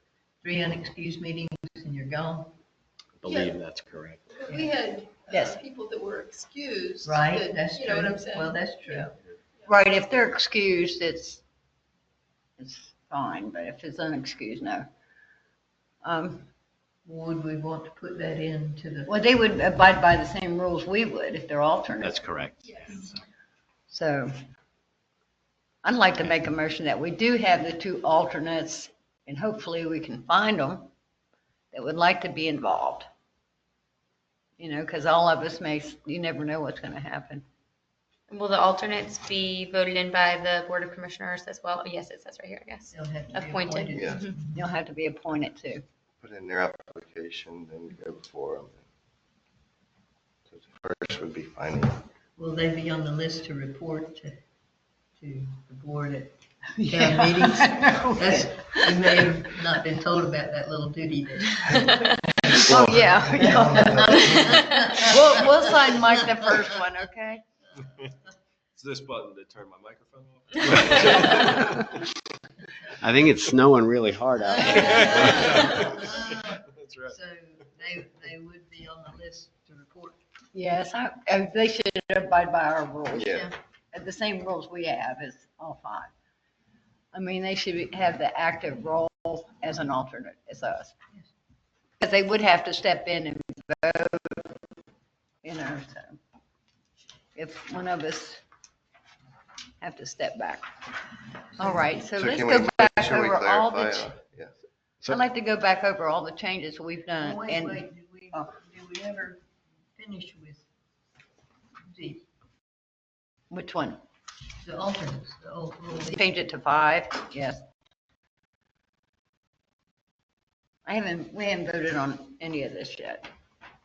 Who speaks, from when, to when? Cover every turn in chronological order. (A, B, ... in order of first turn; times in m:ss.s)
0:00.4-0:02.6 A
0:03.2-0:04.5 B
0:04.3-0:09.0 C
0:04.5-0:04.7 A
0:05.3-0:05.6 D
0:07.0-0:09.1 A
0:09.7-0:11.4 D
0:12.6-0:14.9 D
0:16.0-0:16.5 D
0:17.0-0:19.1 A
0:19.1-0:22.2 D
0:22.0-0:23.1 B
0:23.9-0:24.3 D
0:25.8-0:30.9 D
0:31.7-0:33.1 D
0:34.6-0:37.4 D
0:38.3-0:44.3 E
0:42.9-0:44.7 A
0:43.9-0:44.2 F
0:44.5-0:45.8 D
0:46.2-0:48.8 F
0:50.5-0:52.0 F
0:52.4-0:54.4 A
0:55.2-1:01.8 A
0:56.8-0:59.3 D
1:02.5-1:07.4 D
1:02.6-1:04.6 F
1:02.8-1:05.4 A
1:07.8-1:08.1 G
1:08.8-1:12.1 G
1:13.0-1:15.6 B
1:14.5-1:20.2 A
1:14.6-1:17.2 G
1:20.5-1:26.1 D
1:23.1-1:23.5 F
1:27.1-1:30.9 D
1:32.0-1:34.6 D
1:35.4-1:36.2 D
1:37.3-1:38.4 D
1:39.8-1:40.8 D
1:41.6-1:44.1 D
1:41.6-1:41.9 A
1:42.1-1:44.5 F
1:45.0-1:48.5 D
1:47.2-1:49.4 A
1:50.0-1:50.6 A
1:51.9-1:52.2 A
1:53.5-1:54.0 D
1:54.6-1:56.2 A
1:56.1-1:57.6 D
2:00.8-2:03.3 D